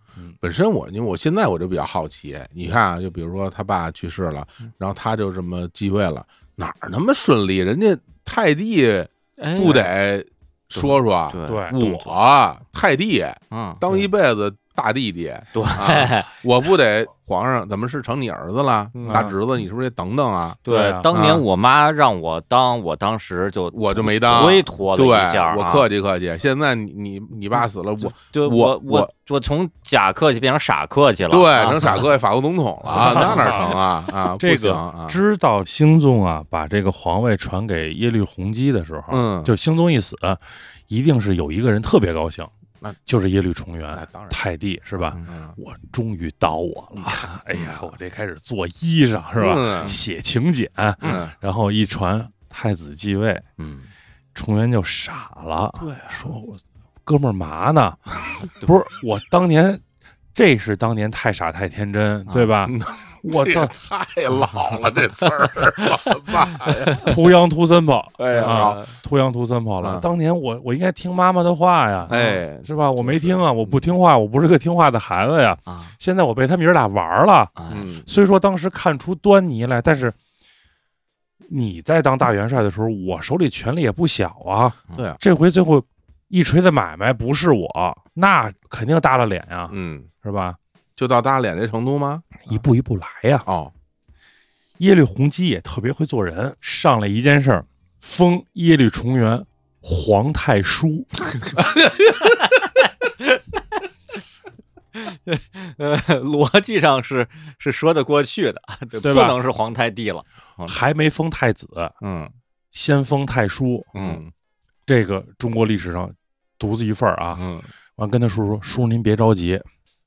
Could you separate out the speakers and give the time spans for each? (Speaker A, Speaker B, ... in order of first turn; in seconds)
Speaker A: 0.4-21.4, 23.7-29.1, 31.3-35.2, 39.1-39.5, 43.9-44.4, 45.2-45.6, 47.5-47.9, 49.4-50.0, 51.0-51.3, 55.8-56.3, 62.6-67.2, 68.2-68.9, 69.8-70.1, 72.1-73.9, 77.7-78.1, 84.9-85.2, 89.7-90.1, 91.0-92.2, 93.4-93.7, 101.6-101.8, 112.0-112.3, 113.9-114.3, 117.3-117.7
Speaker B: 9.4-9.9, 10.7-12.0, 13.5-14.0, 15.5-16.3, 18.9-19.3, 20.6-25.9, 28.0-32.1, 32.9-33.7, 53.6-53.9, 58.4-58.7, 62.3-62.5, 68.3-68.9, 75.7-75.9, 77.6-77.9, 104.9-110.8, 113.9-114.2
Speaker C: 11.5-12.0, 19.1-19.3, 20.7-21.1, 32.9-33.7, 34.4-42.5, 43.0-53.5, 54.3-58.0, 58.6-59.8, 60.3-63.7, 67.0-77.5, 78.0-80.2, 81.5-90.6, 92.5-93.5, 94.8-101.1, 109.0-109.4, 110.7-111.9, 112.7-113.9, 114.9-117.4, 118.0-119.6